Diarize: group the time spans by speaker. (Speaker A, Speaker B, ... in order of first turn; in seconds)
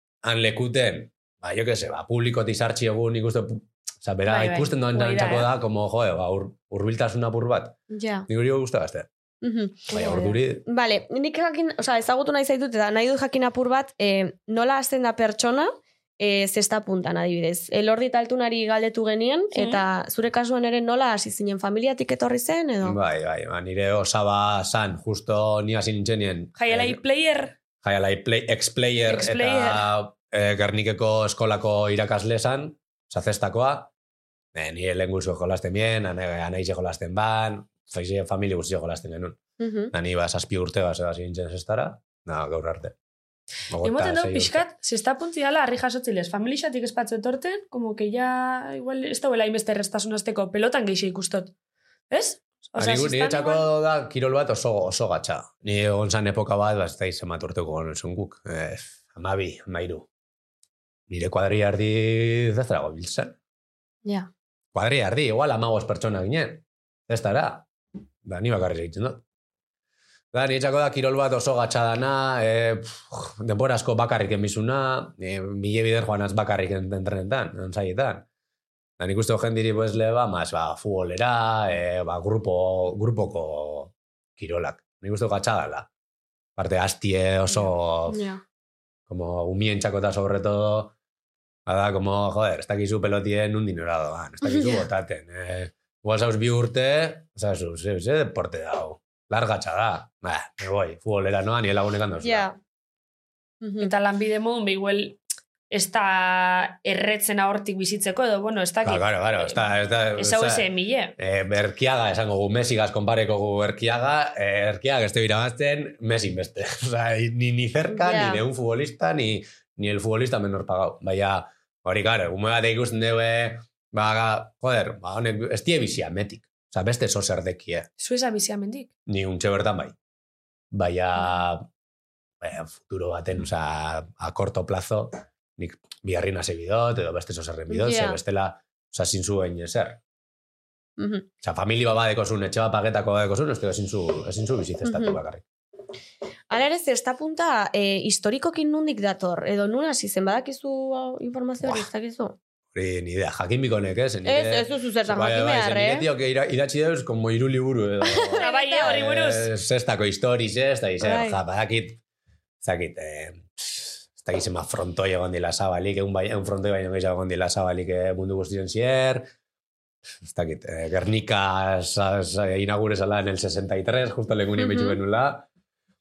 Speaker A: 0.2-7.8, 8.3-9.1, 9.9-10.6, 22.8-27.0, 27.8-33.9, 34.5-39.4, 39.9-42.9, 43.7-44.6, 52.8-60.0, 61.1-63.3, 64.7-67.7, 68.2-69.2, 70.3-78.2, 79.0-85.9, 86.6-88.2, 89.1-90.9, 91.7-102.5, 108.8-110.7, 111.2-127.9, 129.1-129.9, 130.7-131.7, 132.4-140.0, 141.4-145.4, 152.7-162.0, 162.6-169.3, 170.2-175.4
Speaker B: 4.3-5.5, 19.5-19.8, 26.6-27.5, 29.1-29.8, 43.8-51.5, 52.1-53.7, 103.8-105.2, 105.7-109.6, 110.2-111.1, 128.0-128.9, 158.4-159.5
Speaker C: 7.9-8.3, 9.4-23.0, 39.6-39.9, 64.0-64.3, 87.5-88.4, 94.4-94.8, 102.2-102.6, 103.6-103.9, 117.9-118.4, 137.7-138.2, 141.0-141.3, 144.8-145.2, 146.5-152.4, 154.2-156.1, 158.0-159.0, 161.0-161.4, 174.6-175.0